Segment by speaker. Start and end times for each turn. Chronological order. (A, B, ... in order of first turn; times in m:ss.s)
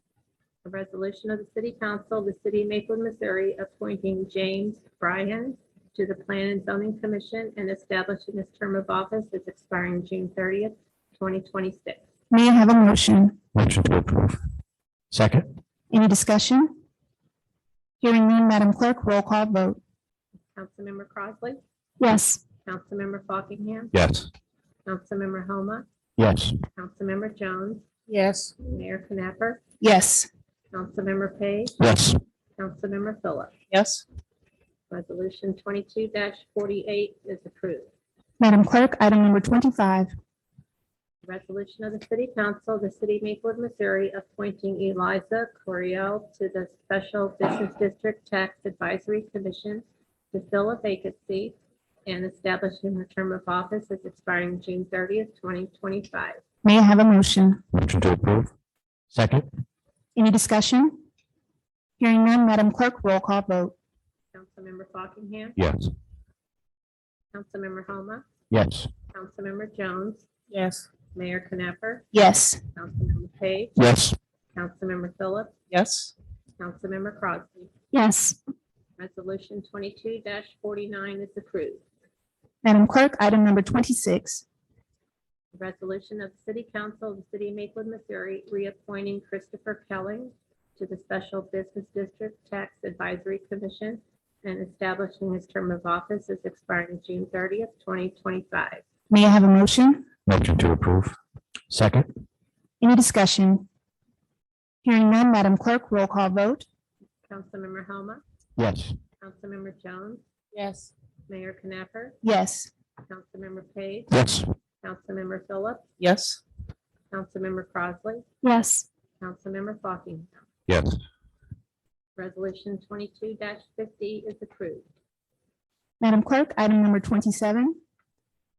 0:00.6-0:12.0 A
0:12.3-0:13.4 B
0:13.5-0:14.4 C
0:15.1-0:15.5 C
0:15.9-0:16.7 B
0:18.0-0:19.8 B
0:20.5-0:21.6 A
0:22.0-0:22.4 B
0:22.6-0:23.9 A
0:23.9-0:24.3 C
0:24.8-0:25.8 A
0:26.2-0:26.6 C
0:26.7-0:27.8 A
0:28.1-0:28.6 D
0:28.6-0:29.6 A
0:29.8-0:30.3 B
0:30.7-0:31.8 A
0:31.8-0:32.2 C
0:32.6-0:33.5 A
0:33.7-0:34.0 D
0:34.9-0:37.9 A
0:38.4-0:40.1 B
0:41.2-0:56.4 A
0:56.6-0:57.6 B
0:57.7-0:58.5 C
0:59.1-0:59.5 C
1:00.1-1:01.0 B
1:02.0-1:03.7 B
1:04.3-1:05.6 A
1:05.6-1:05.9 C
1:07.3-1:08.2 A
1:08.5-1:08.9 C
1:09.1-1:10.3 A
1:10.5-1:10.9 D
1:11.1-1:12.1 A
1:12.1-1:12.6 B
1:12.7-1:13.8 A
1:13.8-1:14.2 C
1:14.5-1:15.5 A
1:15.7-1:16.1 D
1:16.6-1:17.7 A
1:17.9-1:18.4 B
1:19.0-1:21.8 A
1:22.6-1:24.4 B
1:25.5-1:38.8 A
1:39.1-1:40.0 B
1:40.2-1:41.2 C
1:41.7-1:42.1 C
1:42.8-1:43.6 B
1:44.8-1:46.6 B
1:47.3-1:48.2 A
1:48.6-1:49.0 C
1:49.2-1:50.2 A
1:50.5-1:50.9 D
1:51.3-1:52.2 A
1:52.2-1:52.7 B
1:53.1-1:54.1 A
1:54.1-1:54.5 C
1:54.8-1:55.8 A
1:56.0-1:56.4 D
1:57.1-1:58.2 A
1:58.4-1:58.9 B
1:59.2-2:00.4 A
2:00.7-2:01.0 C
2:02.2-2:04.8 A
2:06.0-2:07.8 B